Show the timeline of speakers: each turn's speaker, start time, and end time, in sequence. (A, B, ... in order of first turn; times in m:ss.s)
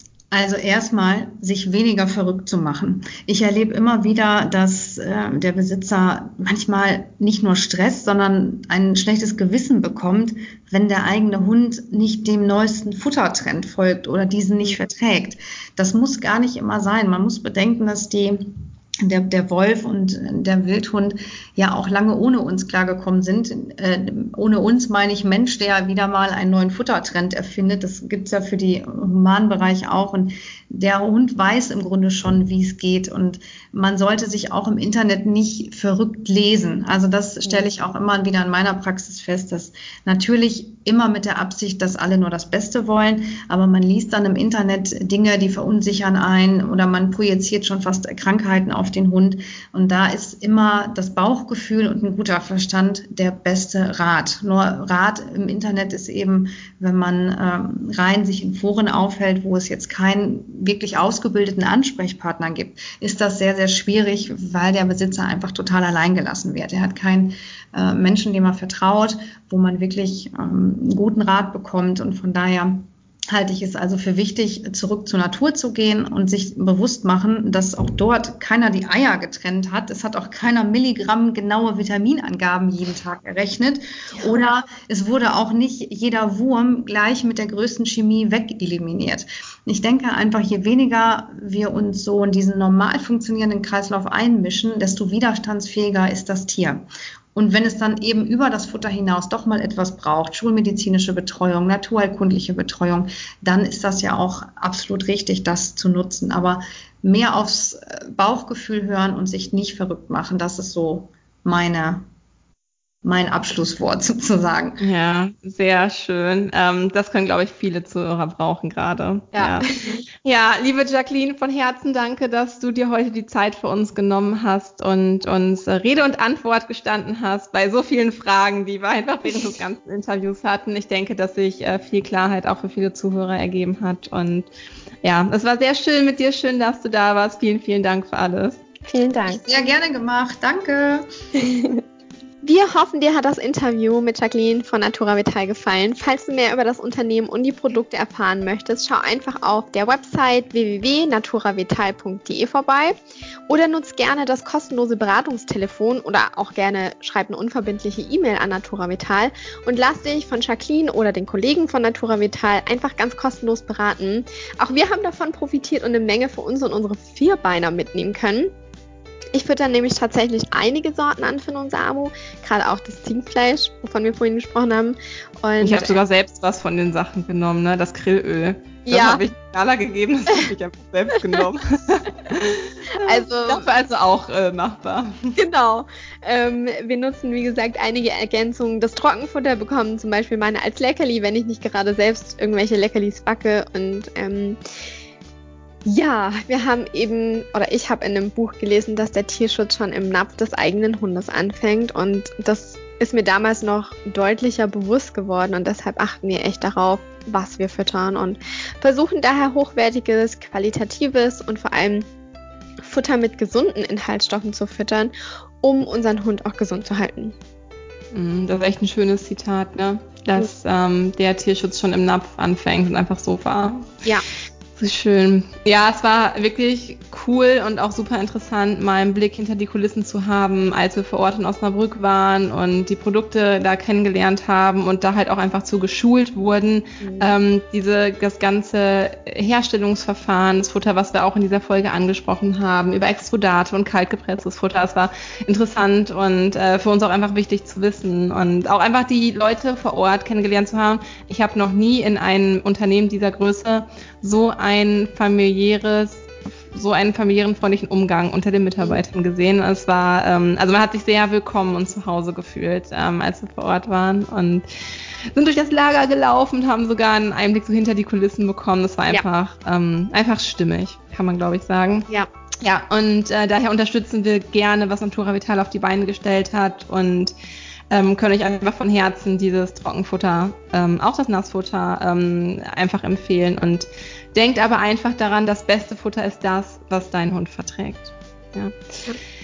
0:00.3-1:52.0 A
1:53.0-1:54.8 A
1:54.8-1:59.7 B
1:59.3-2:00.0 C
2:00.2-2:14.5 B
2:15.0-2:18.6 B
2:18.9-2:19.4 C
2:19.3-2:21.1 A
2:21.4-2:21.8 C
2:22.4-2:33.0 C
2:33.5-2:48.5 C
2:49.3-2:56.0 C
2:55.6-3:05.3 B
2:58.9-2:59.2 C
3:02.9-3:03.6 C
3:05.4-3:14.6 C
3:15.9-3:32.1 C
3:32.8-3:37.4 C
3:38.1-3:44.0 B
3:44.8-4:24.7 B
3:57.0-3:57.3 C
4:25.3-4:32.1 B
4:32.6-4:37.3 B
4:37.9-4:48.7 B